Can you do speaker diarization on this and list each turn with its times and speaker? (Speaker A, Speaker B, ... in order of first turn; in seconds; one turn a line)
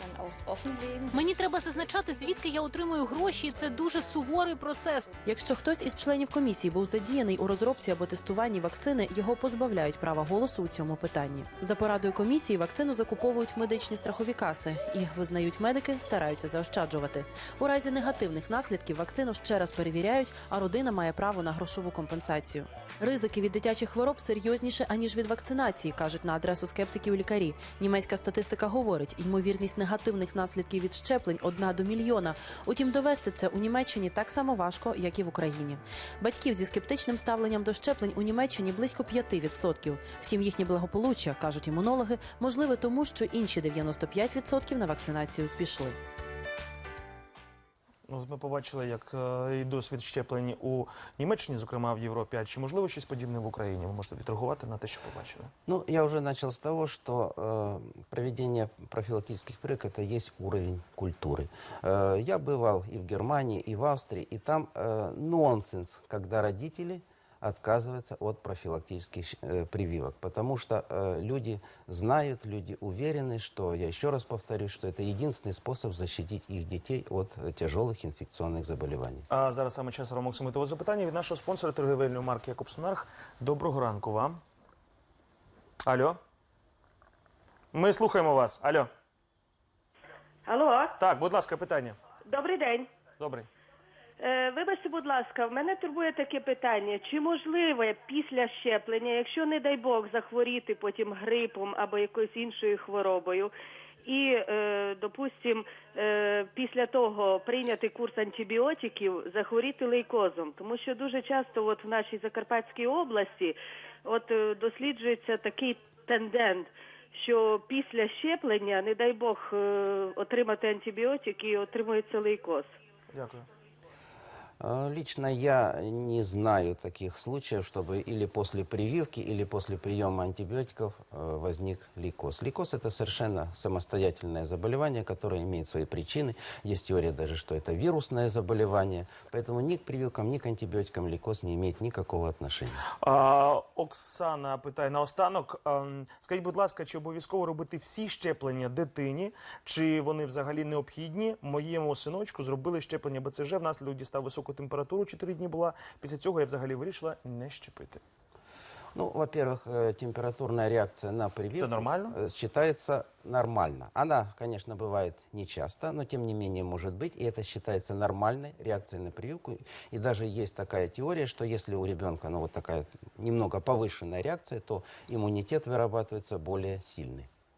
Speaker A: 0.2-5.0
Speaker B: 5.2-46.0
Speaker C: 48.1-55.5
Speaker D: 55.7-79.2
Speaker C: 79.3-84.4
Speaker C: 85.8-86.2
Speaker C: 87.7-88.9
Speaker E: 90.5-90.9
Speaker C: 91.0-92.0
Speaker E: 92.2-92.9
Speaker C: 93.2-93.5
Speaker E: 94.2-103.5
Speaker E: 104.0-122.7
Speaker C: 123.1-123.5
Speaker D: 124.6-142.8
Speaker C: 143.0-158.0
Speaker D: 158.9-177.3
Speaker C: 161.5-162.2